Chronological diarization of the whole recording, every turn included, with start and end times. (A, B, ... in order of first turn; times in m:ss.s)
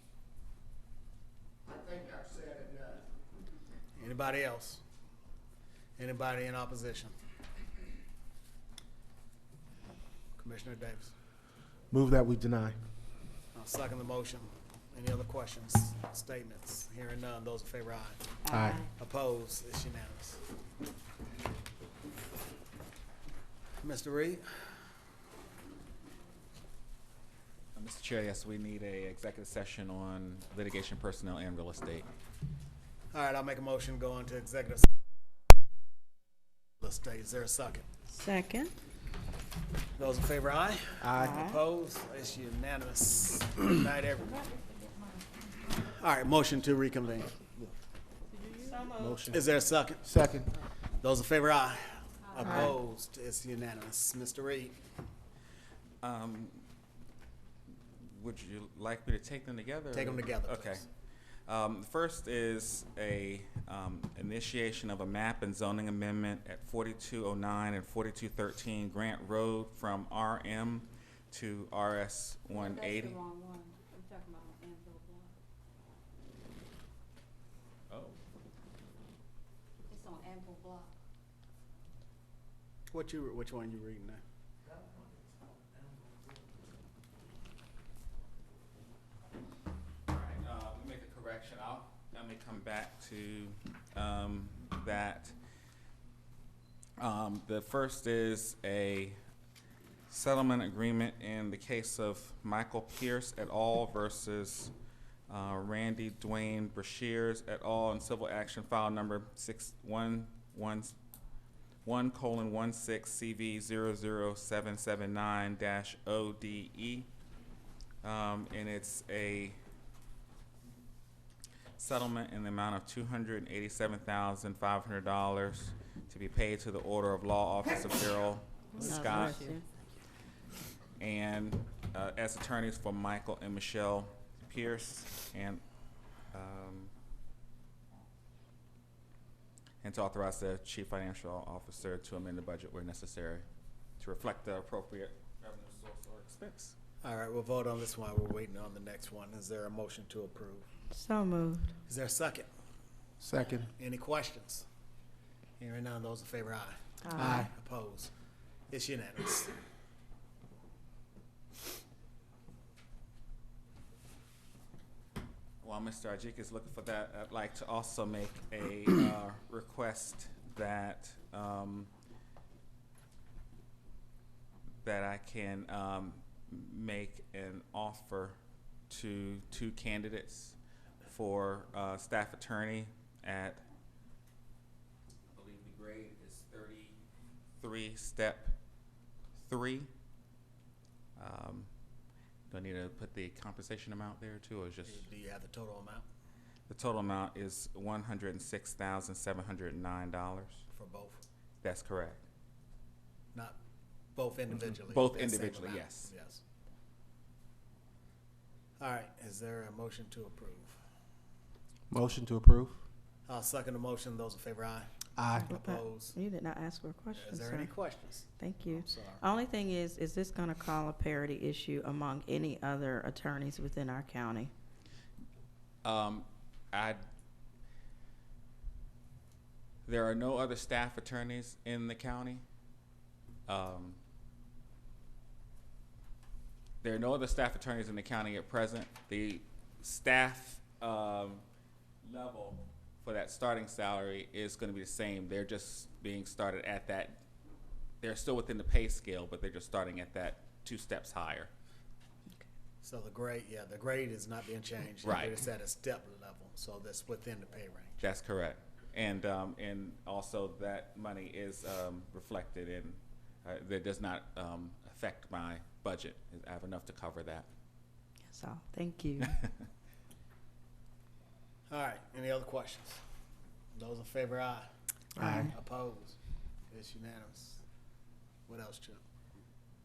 0:01.7-0:03.0 A
0:03.9-0:04.8 A
0:06.0-0:07.2 A
0:10.4-0:11.1 A
0:11.9-0:12.8 B
0:13.5-0:18.2 A
0:18.4-0:18.9 C
0:18.5-0:18.8 B
0:18.9-0:20.4 A
0:23.8-0:24.8 A
0:27.7-0:32.1 D
0:33.1-0:34.9 A
0:36.8-0:37.8 A
0:38.1-0:38.7 C
0:40.0-0:44.5 A
0:41.0-0:41.4 B
0:41.1-0:41.6 C
0:44.3-0:45.3 E
0:45.8-0:47.4 A
0:48.6-0:49.2 C
0:49.0-0:49.4 B
0:49.2-0:50.1 A
0:50.0-0:50.5 B
0:51.0-0:54.8 A
0:52.3-0:52.7 E
0:52.4-0:52.7 C
0:56.0-0:56.6 D
0:58.0-1:00.8 D
0:59.9-1:00.8 A
1:01.5-1:13.2 D
1:12.5-1:15.3 E
1:17.9-1:18.2 D
1:19.9-1:20.9 E
1:22.9-1:24.2 A
1:30.1-1:35.3 D
1:37.0-1:39.2 D
1:40.1-1:44.7 D
1:45.3-1:50.9 D
1:51.8-1:57.1 D
1:58.0-1:59.6 D
2:01.8-2:09.4 D
2:08.8-2:09.6 C
2:11.0-2:15.6 D
2:16.3-2:16.9 D
2:19.8-2:23.4 D
2:24.0-2:26.8 D
2:27.0-2:30.7 A
2:30.9-2:31.7 C
2:31.9-2:32.5 A
2:33.2-2:33.7 B
2:33.5-2:34.6 A
2:35.6-2:38.1 A
2:37.0-2:37.4 C
2:37.2-2:37.5 B
2:38.7-2:39.5 A
2:45.6-2:51.9 D
2:54.8-2:58.4 D
2:58.9-3:03.6 D
3:05.3-3:07.0 D
3:07.6-3:08.5 D
3:09.4-3:09.9 D
3:11.2-3:11.7 D
3:12.5-3:15.0 D
3:14.8-3:16.0 A
3:16.7-3:20.6 D
3:20.7-3:21.2 A
3:21.6-3:22.2 D
3:24.2-3:26.4 A
3:24.9-3:26.1 D
3:28.8-3:30.8 A
3:31.9-3:32.8 B
3:33.3-3:34.9 A
3:35.2-3:35.5 B
3:35.4-3:37.7 C
3:35.5-3:36.2 A
3:37.2-3:39.2 A
3:38.4-3:44.5 C
3:45.8-3:47.0 D
3:49.8-3:52.4 D
3:53.5-3:54.0 D
3:56.8-4:01.4 D
4:02.0-4:07.2 D
4:08.0-4:11.5 D
4:12.8-4:18.0 A
4:15.0-4:15.4 D
4:18.0-4:27.5 D
4:28.3-4:29.4 C
4:31.7-4:33.0 A
4:33.7-4:34.7 A
4:35.2-4:35.5 B
4:35.2-4:35.5 C
4:35.3-4:36.2 A
4:36.7-4:37.6 A
4:38.5-4:39.0 A